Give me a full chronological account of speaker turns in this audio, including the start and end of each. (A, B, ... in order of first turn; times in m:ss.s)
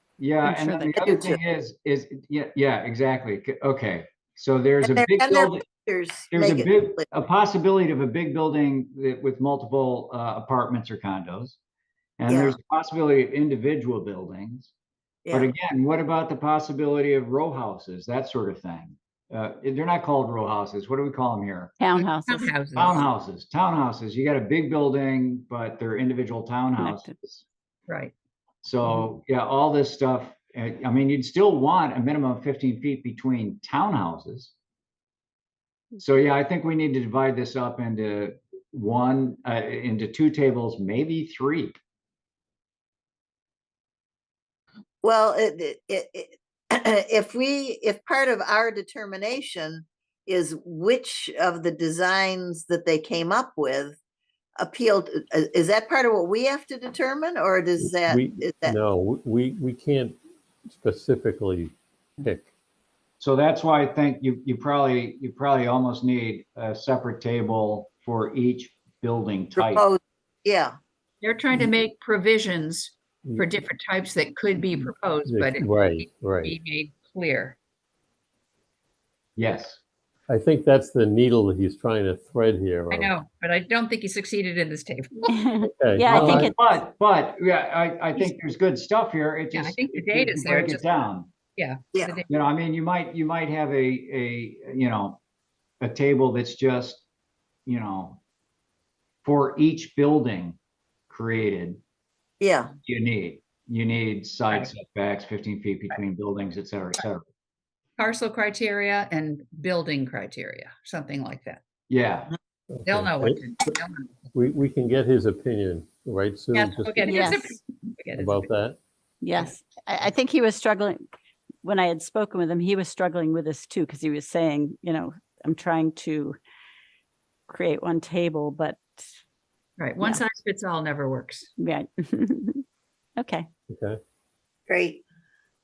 0:00.2-0:05.6 A
0:00.4-0:01.0 B
0:01.0-0:01.4 C
0:04.8-0:07.0 C
0:06.3-0:11.6 A
0:12.2-0:14.7 A
0:12.3-0:12.6 C
0:15.2-0:15.5 C
0:15.3-0:21.7 A
0:21.8-0:22.5 B
0:22.2-0:23.0 D
0:22.7-0:27.4 A
0:26.8-0:27.1 B
0:27.9-0:28.1 D
0:28.6-0:34.5 A
0:36.0-0:41.8 A
0:45.0-0:54.0 C
0:54.6-0:58.8 C
0:57.8-1:00.2 E
1:00.7-1:02.5 E
1:03.2-1:09.8 A
1:09.6-1:10.8 C
1:11.2-1:17.6 D
1:13.2-1:13.5 E
1:15.2-1:16.5 E
1:19.4-1:19.8 A
1:20.3-1:23.1 E
1:22.9-1:25.4 D
1:25.3-1:26.6 B
1:25.8-1:26.5 E
1:26.1-1:31.3 A
1:29.5-1:31.0 D
1:31.6-1:32.3 D
1:32.3-1:35.2 A
1:35.8-1:37.0 A
1:37.6-1:38.2 A
1:39.2-1:40.6 A
1:41.1-1:41.8 A
1:42.4-1:42.7 C
1:42.8-1:47.2 A
1:48.0-1:51.6 D
1:51.9-1:52.3 A
1:52.7-1:53.4 E
1:52.8-1:54.3 D
1:54.3-1:57.3 E
1:56.5-1:58.5 D
1:57.0-1:57.5 B
1:58.2-1:58.8 E
1:59.2-2:01.0 B
2:01.6-2:06.4 B
2:07.5-2:09.0 B
2:09.8-2:11.5 D
2:11.6-2:12.6 B
2:13.2-2:13.5 B
2:13.7-2:14.0 E
2:14.7-2:15.0 C